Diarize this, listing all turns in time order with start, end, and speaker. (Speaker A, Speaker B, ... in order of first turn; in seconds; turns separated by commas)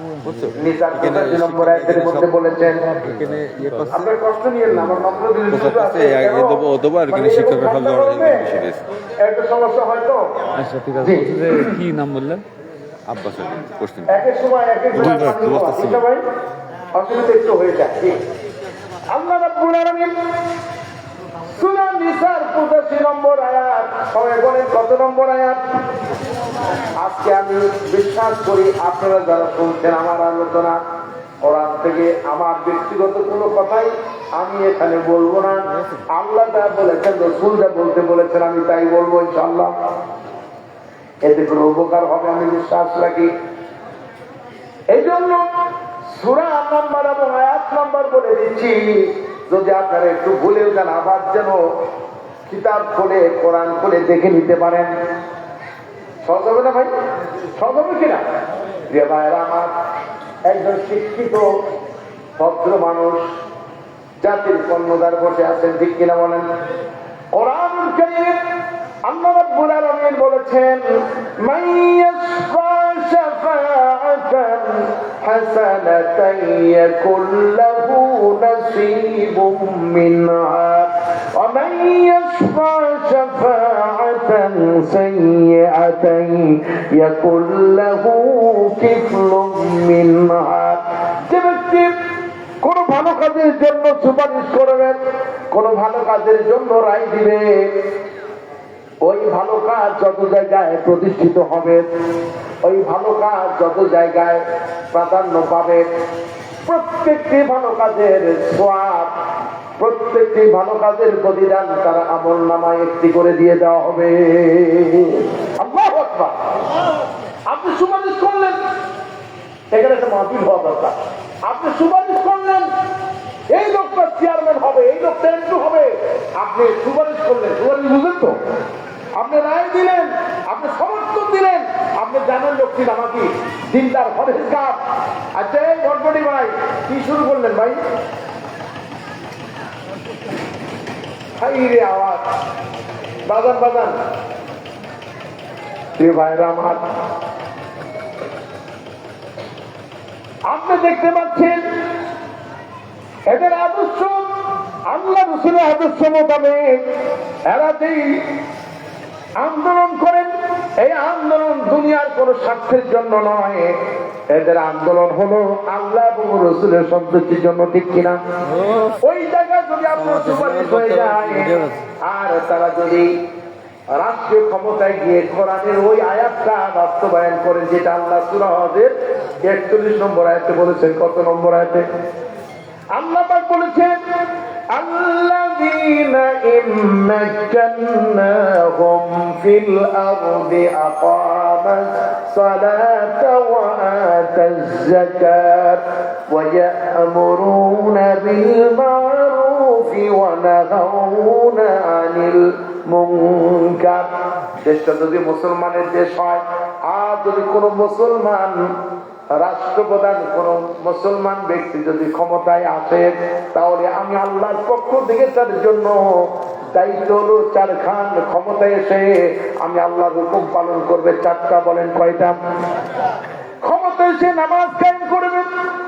Speaker A: 0.2-2.3, Speaker B: 0.6-2.8, Speaker A: 2.8-4.1, Speaker C: 3.2-3.9, Speaker B: 3.9-8.5, Speaker A: 5.5-8.9, Speaker B: 9.2-10.3, Speaker C: 10.6-12.4, Speaker B: 11.0-11.8, Speaker A: 13.1-14.2, Speaker B: 14.1-16.2, Speaker A: 14.9-16.0, Speaker B: 16.9-18.2, Speaker B: 19.1-20.1, Speaker B: 21.4-25.6, Speaker B: 27.0-30.8, Speaker B: 31.4-39.7, Speaker B: 41.2-43.3, Speaker B: 44.9-45.5, Speaker B: 46.1-51.6, Speaker B: 52.5-54.9, Speaker B: 56.2-56.9, Speaker B: 57.5-58.2, Speaker B: 58.9-59.7, Speaker B: 60.5-61.5, Speaker B: 62.4-63.2, Speaker B: 64.2-66.5, Speaker B: 67.3-68.4, Speaker B: 69.0-70.8, Speaker B: 71.4-91.9, Speaker B: 92.6-95.0, Speaker B: 95.5-97.4, Speaker B: 99.0-101.9, Speaker B: 102.6-105.9, Speaker B: 106.6-109.1, Speaker B: 109.8-116.4, Speaker B: 117.5-118.6, Speaker B: 119.7-122.7, Speaker B: 123.5-128.4, Speaker B: 129.2-134.8, Speaker B: 135.3-137.8, Speaker B: 141.4-142.2, Speaker B: 143.2-144.0, Speaker B: 146.0-146.8, Speaker B: 150.5-151.6, Speaker B: 153.3-154.3, Speaker B: 154.9-156.8, Speaker B: 157.5-158.3, Speaker B: 159.4-163.7, Speaker B: 164.3-168.2, Speaker B: 168.8-173.1, Speaker B: 173.9-181.9, Speaker B: 182.9-184.0, Speaker B: 184.7-208.7, Speaker B: 209.4-222.4, Speaker B: 223.6-225.5